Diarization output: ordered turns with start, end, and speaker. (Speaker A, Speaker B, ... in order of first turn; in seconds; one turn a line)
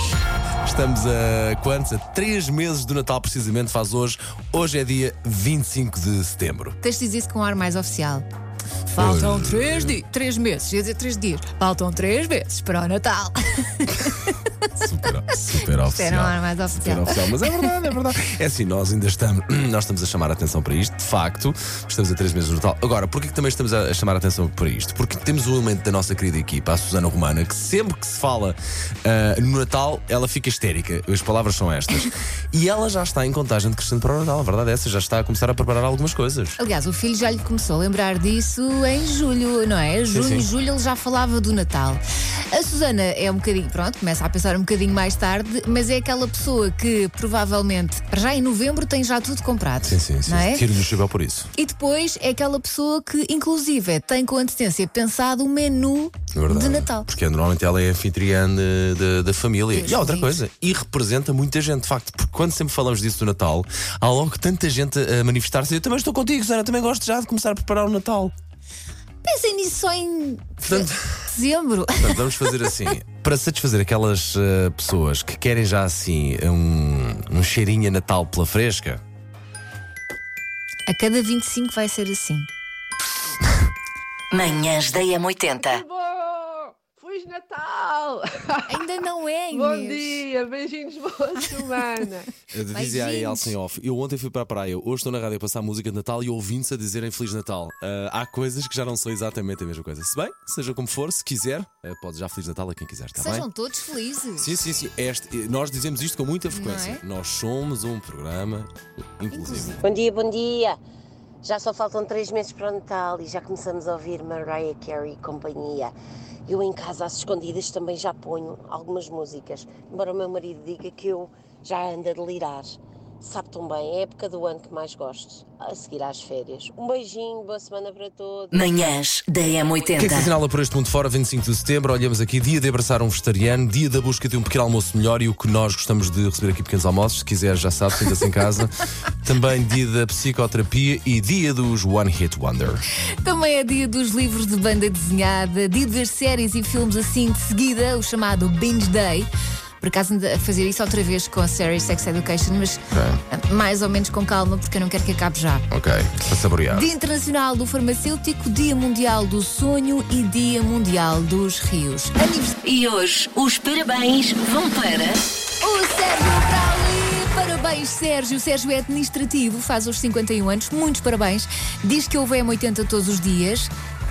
Speaker A: 0.6-6.8
Speaker B: 6.8-8.2
Speaker B: 8.9-14.4
Speaker A: 9.0-10.0
Speaker A: 14.8-36.6
Speaker B: 15.3-17.7
Speaker B: 36.6-42.0
Speaker A: 40.1-40.5
Speaker B: 42.5-50.7
Speaker A: 49.8-51.5
Speaker B: 51.6-57.1
Speaker A: 56.3-68.3
Speaker B: 59.7-60.3
Speaker B: 69.2-72.8
Speaker A: 70.6-71.1
Speaker A: 72.0-79.0
Speaker B: 80.9-82.5
Speaker C: 84.3-85.8
Speaker D: 85.5-88.8
Speaker B: 88.7-90.3
Speaker D: 89.5-92.3
Speaker A: 92.5-103.5
Speaker B: 92.7-93.5
Speaker B: 103.2-104.5
Speaker A: 104.4-109.8
Speaker B: 106.5-107.0
Speaker B: 109.3-109.8
Speaker E: 109.8-110.8
Speaker E: 111.4-116.0
Speaker E: 116.5-128.9
Speaker C: 128.6-130.3
Speaker A: 130.0-138.7
Speaker A: 139.2-142.8
Speaker B: 143.2-155.7
Speaker A: 152.9-153.2
Speaker A: 155.7-156.9
Speaker B: 156.7-162.6
Speaker C: 162.6-165.2
Speaker B: 165.6-173.7